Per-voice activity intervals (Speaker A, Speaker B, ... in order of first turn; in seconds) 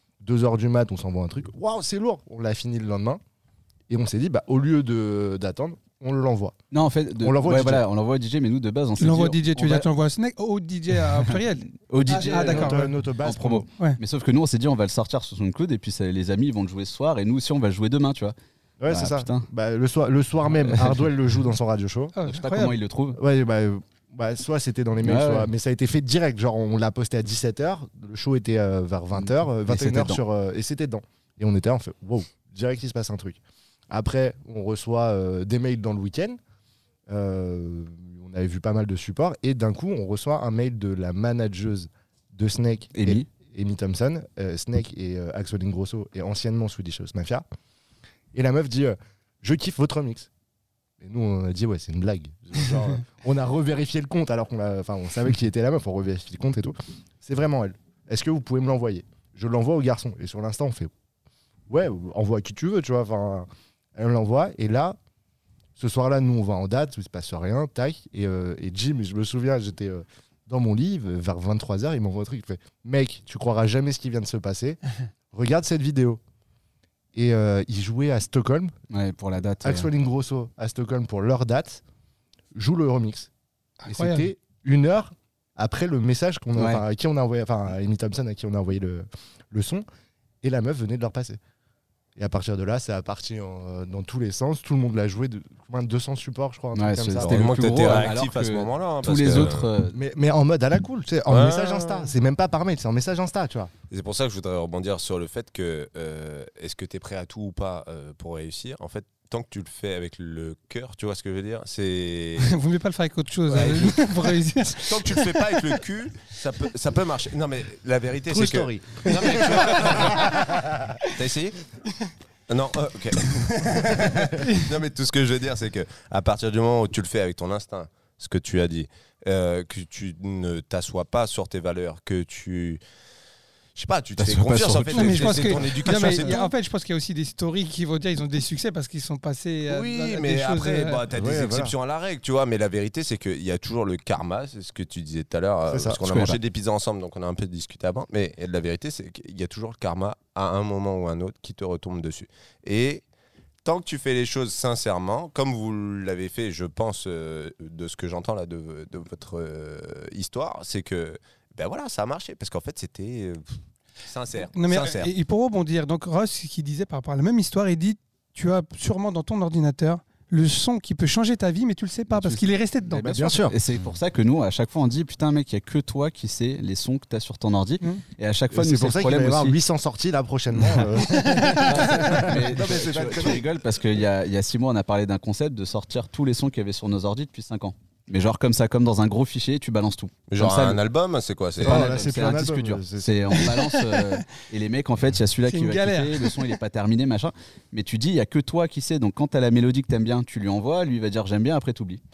Speaker A: 0.2-3.2, 3.9-6.5, 7.2-7.8, 12.1-13.7, 18.8-22.1, 23.1-36.4, 37.1-47.4, 48.3-50.3, 51.0-60.9, 61.7-65.0, 65.8-74.8, 75.3-76.2, 77.1-78.7, 79.6-81.8, 82.5-83.3, 83.8-89.8, 90.4-91.4, 92.2-98.1, 99.9-103.7, 118.3-120.7, 141.1-141.7, 145.7-146.0, 173.0-173.6, 178.5-183.5, 191.6-193.6
Speaker B: 6.7-9.9, 11.3-18.3, 18.9-19.5, 20.6-21.1, 22.2-23.2, 25.0-25.5, 29.2-30.2, 43.0-43.2, 78.9-79.9, 86.5-86.8, 96.7-100.0, 134.2-136.2, 146.1-146.4, 172.1-179.6, 181.7-190.8, 191.6-202.0
Speaker C: 9.0-12.9, 22.1-22.8, 83.8-84.3, 112.4-115.7, 124.4-124.7, 134.9-141.0, 164.5-173.3, 181.0-182.2, 193.4-194.0, 195.5-196.4
Speaker D: 97.2-99.7, 101.3-102.1, 103.9-112.5, 113.5-120.4, 121.0-121.6, 122.5-132.8, 133.7-136.5, 139.7-153.0, 153.6-163.5, 164.0-165.1, 190.3-191.9